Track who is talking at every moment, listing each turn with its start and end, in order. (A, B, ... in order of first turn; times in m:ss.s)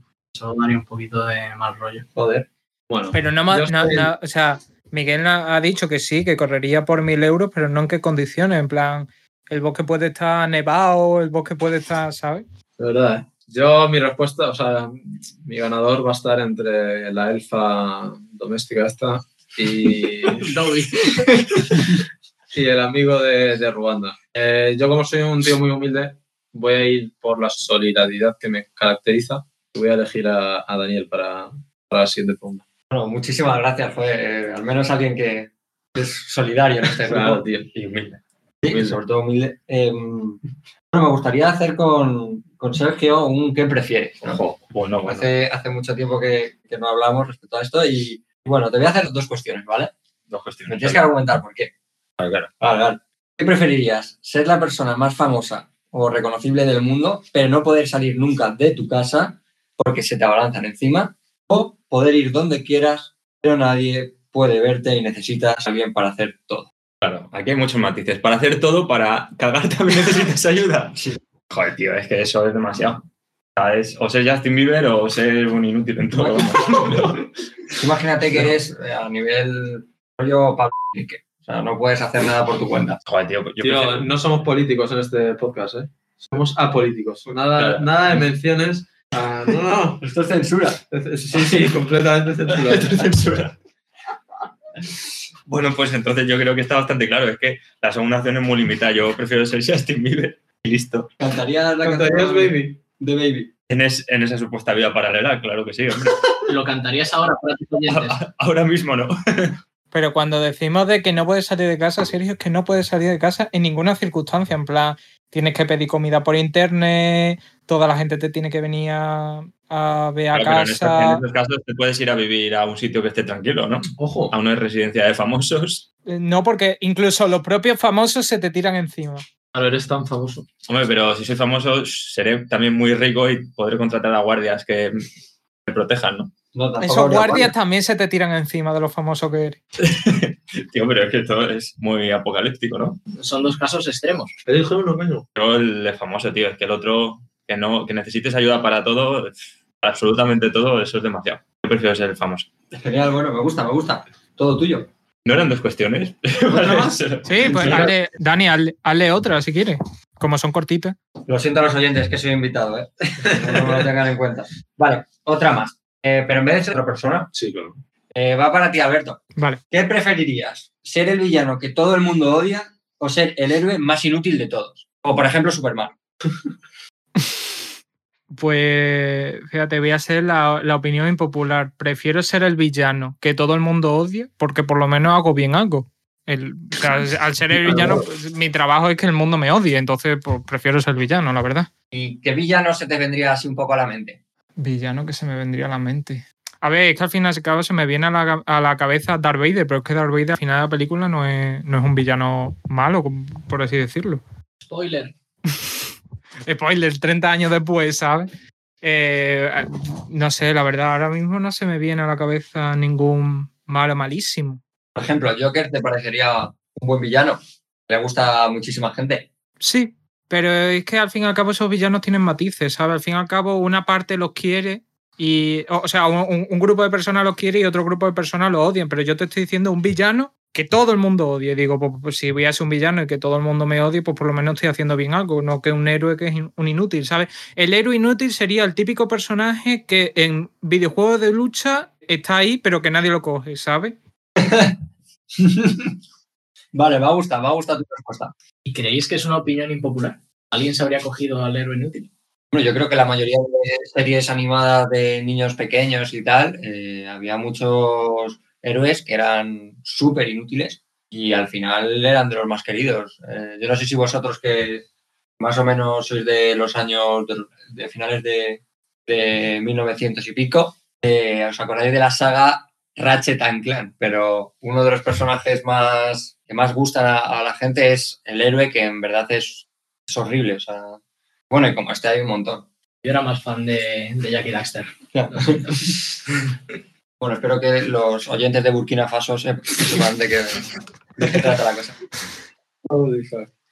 0:00.3-0:02.1 A
0:02.2-0:04.1 B
0:03.1-0:12.4 C
0:12.8-0:20.6 B
0:20.3-0:21.5 A
0:22.5-0:32.6 B
0:32.9-0:40.4 D
0:37.0-0:37.7 B
0:38.7-0:39.0 B
0:40.9-0:44.4 D
0:44.2-0:44.6 B
0:44.7-0:45.3 E
0:45.0-0:49.9 D
0:50.3-0:51.0 E
0:50.7-0:51.7 D
0:52.2-0:52.5 E
0:52.6-1:06.7 D
1:07.0-1:11.0 E
1:11.5-1:13.0 E
1:13.6-1:17.3 E
1:16.2-1:17.0 B
1:17.7-1:23.0 D
1:23.0-1:24.1 E
1:23.6-1:30.0 B
1:27.6-1:27.9 E
1:30.0-1:30.8 D
1:30.9-1:33.4 B
1:31.3-1:31.6 E
1:32.5-1:33.5 E
1:35.5-1:41.1 E
1:41.2-1:43.5 D
1:41.8-1:42.7 B
1:43.7-1:46.3 E
1:46.4-1:48.2 A
1:47.8-1:49.6 E
1:49.9-2:01.2 C
2:00.3-2:05.8 E
2:04.0-2:04.3 B
2:06.1-2:09.2 C
2:09.5-2:10.5 B
2:10.7-2:15.0 E
2:15.7-2:16.3 E
2:16.5-2:17.5 D
2:16.8-2:19.6 C
2:19.8-2:23.0 E
2:23.1-2:24.4 A
2:24.4-2:25.2 B
2:25.4-2:32.5 E
2:32.7-2:34.9 D
2:35.2-2:37.9 E
2:36.6-2:41.0 C
2:37.5-2:37.9 D
2:41.2-2:47.3 D
2:43.4-2:43.8 B
2:47.3-2:47.8 B
2:48.1-2:55.9 D
2:49.4-2:49.6 C
2:58.3-3:11.7 C
3:07.7-3:08.0 B
3:11.9-3:14.2 D
3:14.6-3:24.2 C
3:24.6-3:25.1 A
3:26.4-3:28.3 C
3:28.8-3:34.6 C
3:35.0-3:39.3 D
3:39.6-4:03.9 C
4:04.4-4:04.8 D
4:05.4-4:05.9 D
4:06.7-4:08.3 D
4:08.6-4:12.1 A
4:12.5-4:24.8 D
4:25.4-4:42.7 D
4:43.0-4:45.8 A
4:45.1-4:45.8 D
4:47.2-4:52.0 D
4:52.8-4:53.5 B